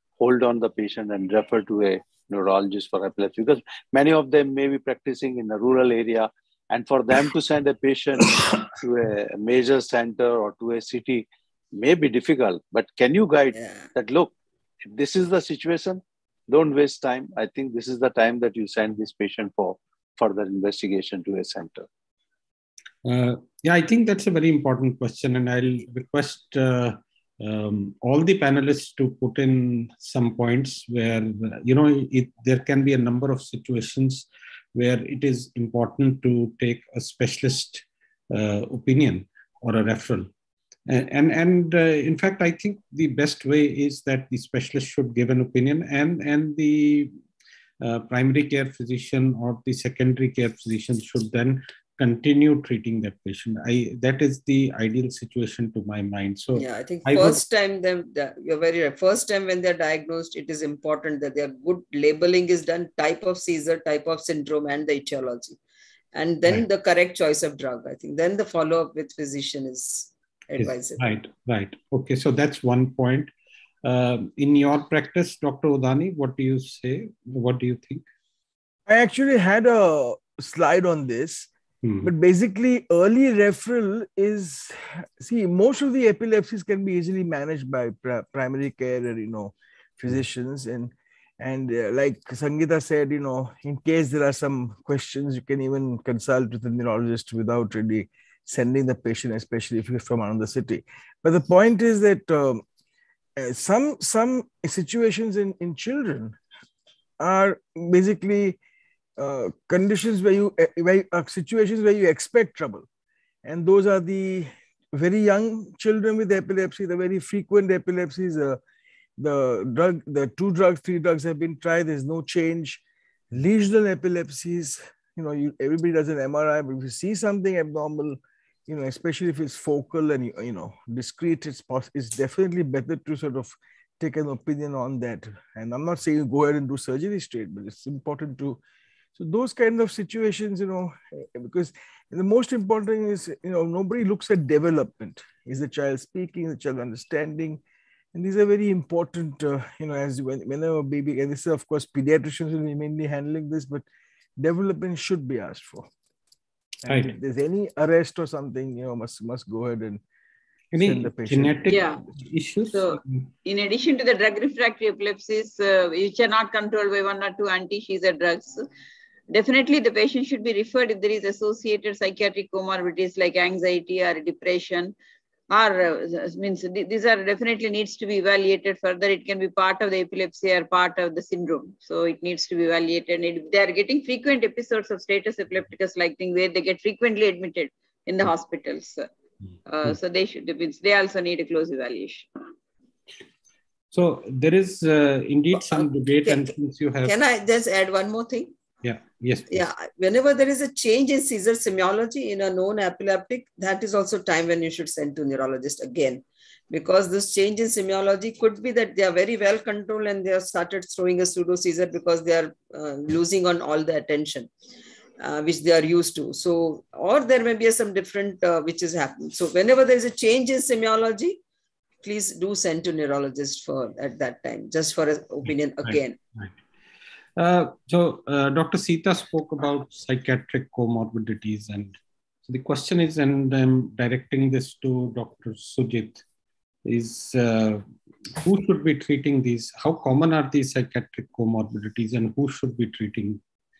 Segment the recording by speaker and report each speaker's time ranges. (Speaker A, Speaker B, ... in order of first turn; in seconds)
Speaker A: 0.2-14.3, 14.8-21.9
Speaker B: 13.6-13.9, 56.5-65.6, 66.1-71.0, 195.5-198.5, 199.5-214.5, 215.2-221.4, 222.0-226.2
Speaker C: 23.1-40.3, 40.9-47.1, 47.8-57.4, 70.6-73.3, 73.8-78.0, 81.8-82.1, 156.9-157.2, 160.7-163.2, 193.9-197.2, 198.8-199.7, 225.8-226.5, 227.4-232.0, 232.5-236.2, 236.8-237.8, 238.4-243.4
Speaker D: 78.9-81.5, 82.0-102.6, 103.4-106.4, 107.2-108.6, 109.2-112.9, 113.4-118.6, 119.2-138.6, 139.2-147.6, 148.1-153.9, 154.4-155.9, 156.8-160.0, 160.8-162.0
Speaker E: 161.7-162.0, 162.7-168.7, 169.3-174.9, 175.5-189.1, 189.7-192.3